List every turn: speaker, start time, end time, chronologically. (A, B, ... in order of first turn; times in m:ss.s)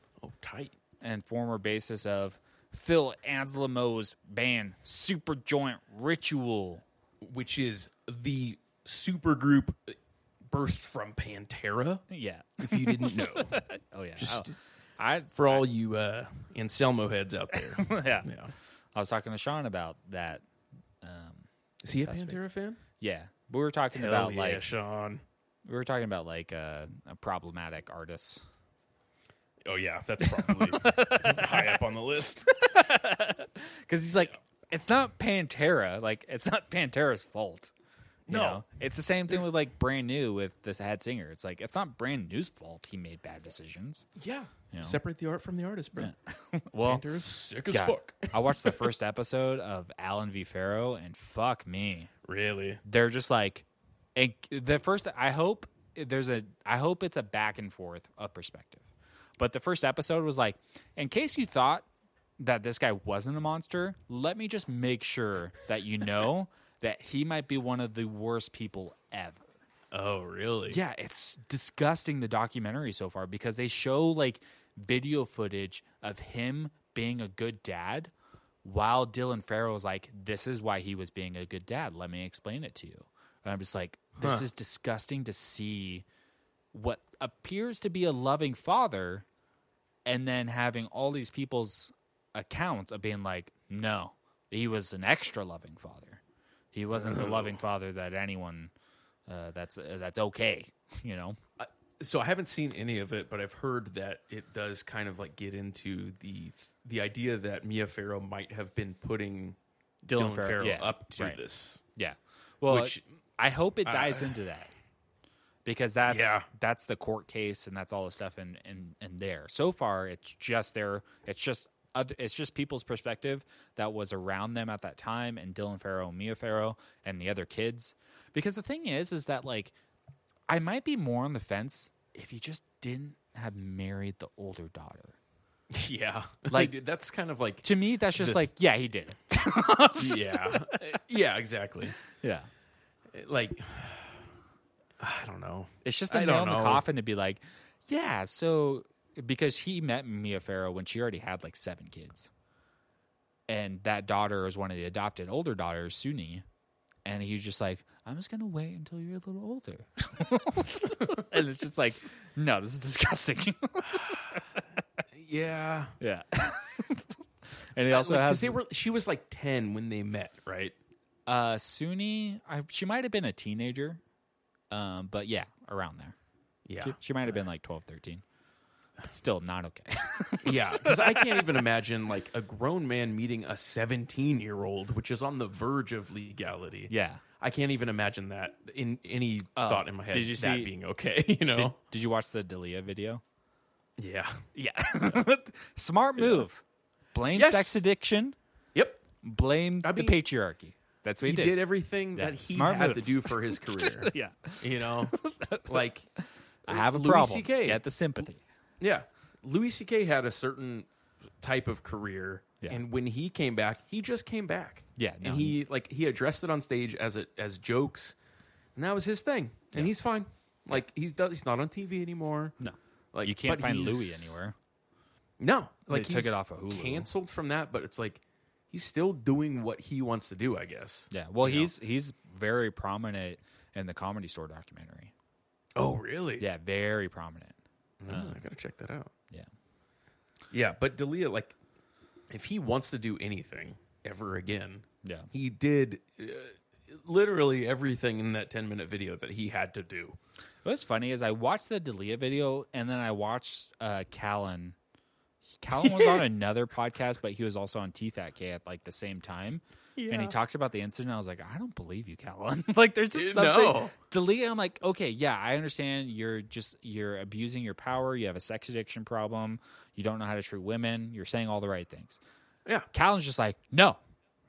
0:00.2-0:00.7 A
0:01.0-0:06.8 B
0:07.2-0:10.0 A
0:10.5-0:12.1 A
0:12.1-0:15.7 B
0:12.6-0:13.6 A
0:14.2-0:14.6 A
0:15.3-0:18.5 A
0:17.6-0:18.3 B
0:19.0-0:20.4 B
0:21.0-0:21.5 B
0:21.8-0:22.8 A
0:22.0-0:22.4 B
0:23.0-0:24.6 B
0:23.9-0:25.2 A
0:25.6-0:28.4 B
0:29.6-0:32.5 A
0:30.3-0:31.8 B
0:32.5-0:37.7 B
0:38.3-0:38.6 A
0:38.3-0:44.0 B
0:44.2-0:46.1 A
0:44.7-0:45.0 B
0:46.0-0:47.0 B
0:46.8-0:48.9 A
0:47.7-0:52.1 B
0:52.2-0:52.8 A
0:52.8-0:58.8 B
0:59.4-1:01.9 B
1:02.4-1:09.4 B
1:09.9-1:10.8 A
1:10.7-1:18.1 B
1:18.6-1:26.0 B
1:24.2-1:24.5 A
1:26.7-1:29.2 B
1:30.1-1:36.2 B
1:36.7-1:38.7 B
1:36.9-1:37.6 A
1:39.3-1:41.4 B
1:41.6-1:51.8 A
1:50.1-1:51.4 B
1:52.0-1:54.7 B
1:52.7-1:53.0 A
1:53.9-1:54.4 A
1:55.7-2:09.7 B
1:56.1-1:56.5 A
2:10.5-2:15.2 B
2:15.7-2:18.5 A
2:16.5-2:16.8 B
2:17.6-2:20.8 B
2:20.0-2:22.0 A
2:22.1-2:22.5 B
2:23.1-2:24.2 A
2:25.0-2:26.8 A
2:25.8-2:32.3 B
2:33.5-2:36.4 B
2:37.0-2:44.8 B
2:45.1-2:46.0 A
2:46.0-2:47.2 B
2:47.7-2:48.6 B
2:47.9-2:50.8 A
2:51.3-2:54.0 B
2:54.7-2:56.2 B
2:56.7-2:57.0 A
2:56.8-2:58.2 B
2:59.0-3:01.4 B
3:00.4-3:11.8 A
3:06.9-3:07.2 B
3:09.6-3:10.7 B
3:11.5-3:13.2 B
3:14.0-3:14.5 A
3:14.6-3:16.6 B
3:17.1-3:18.4 B
3:17.3-3:17.8 A
3:18.8-3:19.0 A
3:19.2-3:21.6 B
3:19.8-3:20.2 A
3:21.2-3:26.1 A
3:22.2-3:28.4 B
3:26.7-3:27.8 A
3:28.8-3:30.9 A
3:31.4-3:38.2 A
3:35.0-3:35.6 B
3:38.8-3:42.6 A
3:42.6-3:44.6 B
3:43.1-3:44.4 A
3:45.4-3:51.7 A
3:45.9-3:47.1 B
3:51.1-3:55.1 B
3:55.8-3:56.5 A
3:56.4-3:57.6 B
3:58.0-3:59.1 A
3:58.1-3:58.4 B
4:00.5-4:01.6 A
4:02.3-4:10.2 A
4:05.0-4:05.3 B
4:10.6-4:14.8 B
4:15.6-4:32.2 B
4:15.8-4:16.2 A
4:20.0-4:20.4 A
4:23.2-4:24.0 A
4:32.9-4:34.0 B